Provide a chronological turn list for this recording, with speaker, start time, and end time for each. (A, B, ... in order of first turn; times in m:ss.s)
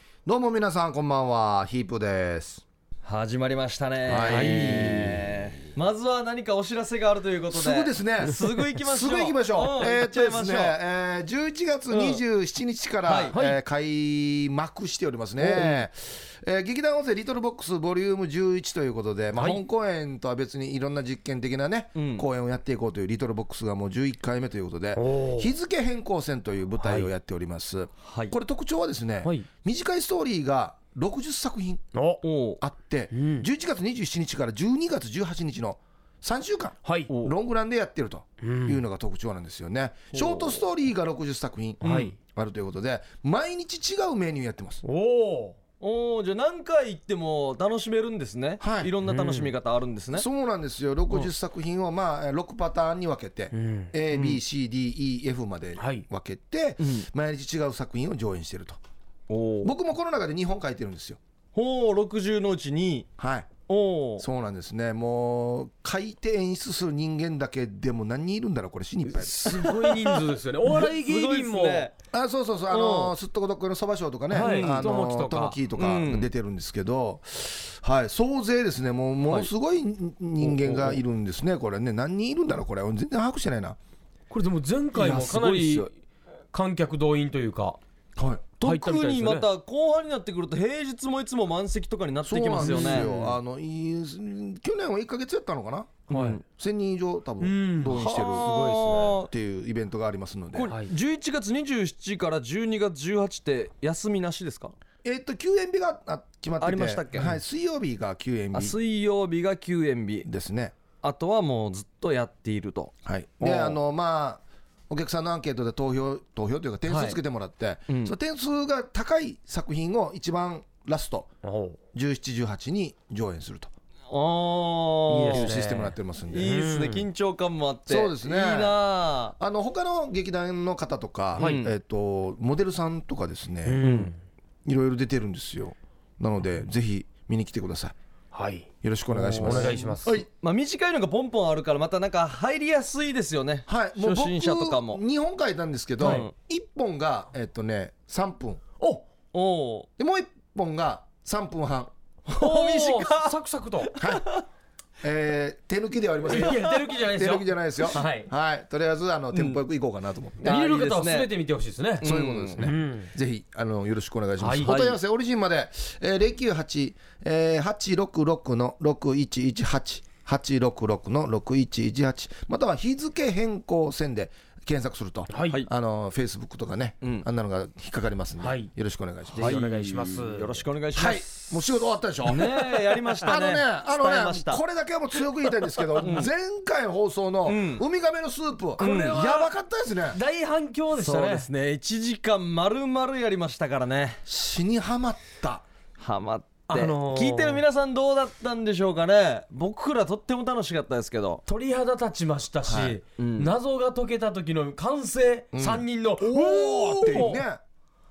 0:00.2-0:02.6 A
0:03.0-0:10.8 B
0:04.0-0:05.4 A
0:04.1-0:05.1 C
0:07.5-0:31.8 A
0:11.9-0:12.2 B
0:13.0-0:13.4 B
0:13.3-0:13.6 C
0:15.4-0:15.8 B
0:21.9-0:22.3 B
0:25.0-0:25.5 C
0:26.8-0:27.1 C
0:28.0-0:28.4 B
0:31.9-0:32.2 C
0:32.2-0:32.6 B
0:32.6-0:44.8 A
0:33.1-0:33.5 C
0:37.1-0:37.3 B
0:38.4-0:38.8 C
0:40.1-0:40.6 B
0:41.8-0:42.1 C
0:41.8-0:42.1 B
0:44.8-0:45.6 C
0:45.8-0:50.2 B
0:48.6-0:48.9 A
0:49.0-0:49.5 C
0:50.2-0:58.8 A
0:53.5-0:53.9 C
0:54.1-0:54.4 B
0:55.8-0:56.0 C
0:56.8-0:57.1 B
0:59.3-0:59.7 B
0:59.6-1:01.2 A
1:01.5-1:03.1 B
1:03.2-1:03.5 A
1:03.7-1:04.3 B
1:04.2-1:09.7 A
1:09.1-1:11.9 C
1:09.4-1:11.9 B
1:12.1-1:23.8 A
1:12.7-1:13.1 B
1:14.3-1:15.6 C
1:14.4-1:14.9 B
1:15.7-1:16.3 B
1:19.2-1:19.5 B
1:20.5-1:20.9 B
1:24.3-1:25.9 C
1:24.9-1:25.9 B
1:26.5-1:27.8 C
1:28.2-1:28.5 A
1:28.6-1:33.1 B
1:28.6-1:29.5 C
1:32.2-1:40.7 A
1:32.6-1:33.3 C
1:36.1-1:36.4 B
1:36.1-1:36.4 C
1:37.4-1:38.4 C
1:37.8-1:39.3 B
1:40.5-1:44.7 B
1:45.0-1:48.8 A
1:46.6-1:47.3 B
1:48.5-1:50.3 B
1:50.2-1:50.7 A
1:51.0-1:53.8 B
1:53.0-2:01.3 A
1:56.9-1:57.2 B
1:57.9-1:58.1 B
2:01.4-2:01.8 C
2:01.9-2:03.7 A
2:04.1-2:05.7 B
2:05.1-2:07.1 C
2:05.3-2:06.6 A
2:06.3-2:09.4 B
2:07.9-2:08.8 A
2:09.4-2:13.8 A
2:11.4-2:11.7 B
2:13.6-2:14.2 C
2:13.8-2:14.1 B
2:14.6-2:17.9 A
2:18.3-2:18.7 C
2:18.8-2:20.2 A
2:19.1-2:25.0 B
2:19.4-2:20.1 C
2:23.7-2:28.6 A
2:26.0-2:26.2 C
2:26.0-2:26.3 B
2:29.3-2:29.9 B
2:30.0-2:31.9 A
2:32.3-2:33.3 B
2:32.4-2:33.9 C
2:33.9-2:34.4 B
2:34.0-2:34.3 A
2:35.0-2:40.6 A
2:36.3-2:38.3 C
2:39.3-2:39.6 B
2:40.4-2:41.3 B
2:40.4-2:43.1 C
2:42.0-2:42.7 B
2:42.0-2:59.6 A
2:44.4-2:44.9 C
2:44.6-2:45.0 B
2:55.3-2:55.6 C
2:58.4-2:58.7 C
2:59.3-3:01.6 B
2:59.4-3:00.6 C
3:00.9-3:10.2 A
3:02.2-3:04.6 B
3:06.0-3:06.3 B
3:07.4-3:07.8 B
3:08.8-3:09.5 C
3:08.8-3:09.2 B
3:10.1-3:11.5 C
3:11.0-3:14.2 B
3:14.2-3:15.6 A
3:16.0-3:21.4 B
3:16.7-3:17.6 C
3:21.5-3:27.4 C
3:22.6-3:23.0 A
3:23.2-3:23.5 B
3:25.5-3:27.6 A